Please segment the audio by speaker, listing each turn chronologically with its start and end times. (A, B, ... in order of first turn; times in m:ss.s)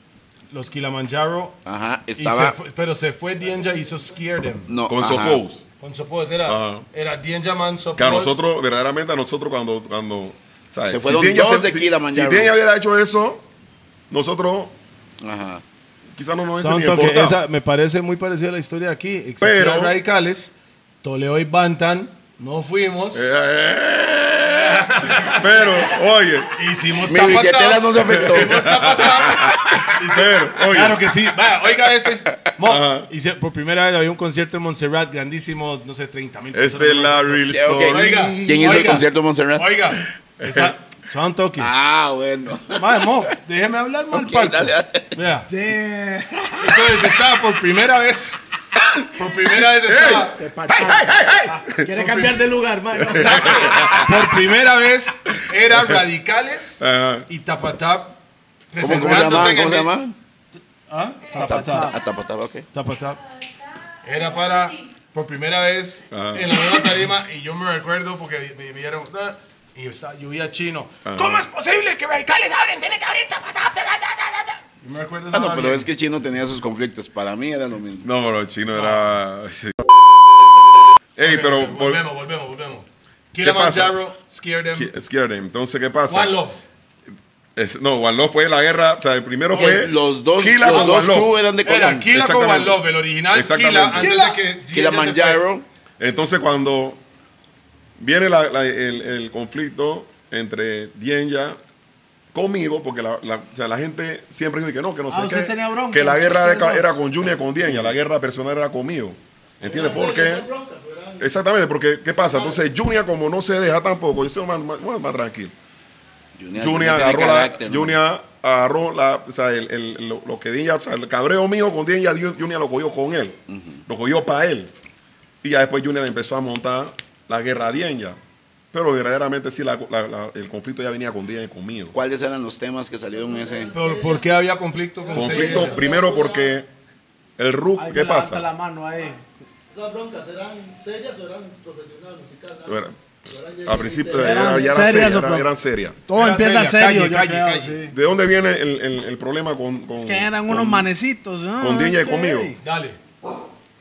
0:00.5-0:01.6 A
0:01.6-0:02.6 B
0:02.2-0:04.7 A
0:04.7-0:05.4 B
0:04.9-0:05.6 C
0:05.8-0:08.4 A
0:06.4-0:06.9 C
0:08.0-0:13.5 C
0:10.9-0:12.5 B
0:14.1-0:14.8 C
0:15.2-0:15.6 B
0:16.2-0:17.4 C
0:16.6-0:23.3 A
0:19.4-0:20.0 C
0:23.1-0:26.6 C
0:24.8-0:25.8 A
0:26.6-0:41.7 A
0:27.0-0:29.8 B
0:28.0-0:31.2 C
0:32.6-0:33.1 C
0:36.5-0:38.4 C
0:37.5-0:39.7 B
0:40.4-0:40.8 C
0:41.6-0:43.2 B
0:42.7-0:45.5 A
0:44.1-0:45.1 B
0:45.5-0:47.0 D
0:46.6-0:48.4 A
0:49.1-0:50.4 A
0:49.8-0:50.4 C
0:50.4-0:53.8 D
0:50.7-0:51.6 B
0:51.9-0:52.5 A
0:53.0-0:54.3 C
0:53.3-0:54.0 B
0:53.9-0:58.2 A
0:55.3-0:56.0 C
0:56.8-0:57.3 C
0:58.7-0:59.9 A
0:58.8-1:00.2 B
1:00.9-1:02.0 A
1:01.3-1:02.0 D
1:01.4-1:02.7 B
1:02.7-1:03.2 A
1:04.0-1:15.9 A
1:06.1-1:07.0 C
1:11.0-1:11.5 C
1:15.3-1:18.0 B
1:18.0-1:20.0 C
1:18.7-1:19.1 A
1:21.2-1:22.0 C
1:21.2-1:24.9 A
1:23.4-1:24.0 C
1:24.7-1:26.4 C
1:26.1-1:26.6 A
1:27.6-1:31.4 C
1:29.5-1:32.1 B
1:30.6-1:31.1 A
1:31.6-1:35.4 A
1:32.1-1:34.2 C
1:34.7-1:35.6 B
1:36.0-1:37.0 C
1:38.0-1:41.6 C
1:42.3-1:50.5 C
1:45.1-1:47.0 D
1:47.7-1:48.0 B
1:49.6-1:51.4 E
1:51.2-1:55.5 C
1:52.2-1:52.6 E
1:56.4-1:58.0 B
1:56.6-2:04.7 C
2:03.5-2:03.8 B
2:05.4-2:08.2 C
2:08.7-2:12.0 C
2:11.9-2:13.7 B
2:13.1-2:14.4 E
2:13.7-2:15.8 A
2:15.0-2:16.6 E
2:15.1-2:16.7 C
2:17.4-2:18.5 C
2:17.8-2:19.2 D
2:19.7-2:25.0 E
2:22.7-2:22.9 C
2:23.6-2:26.0 C
2:24.1-2:25.5 D
2:26.1-2:28.0 D
2:26.1-2:27.9 A
2:27.9-2:30.9 C
2:30.0-2:32.6 D
2:31.6-2:32.5 C
2:32.6-2:33.0 A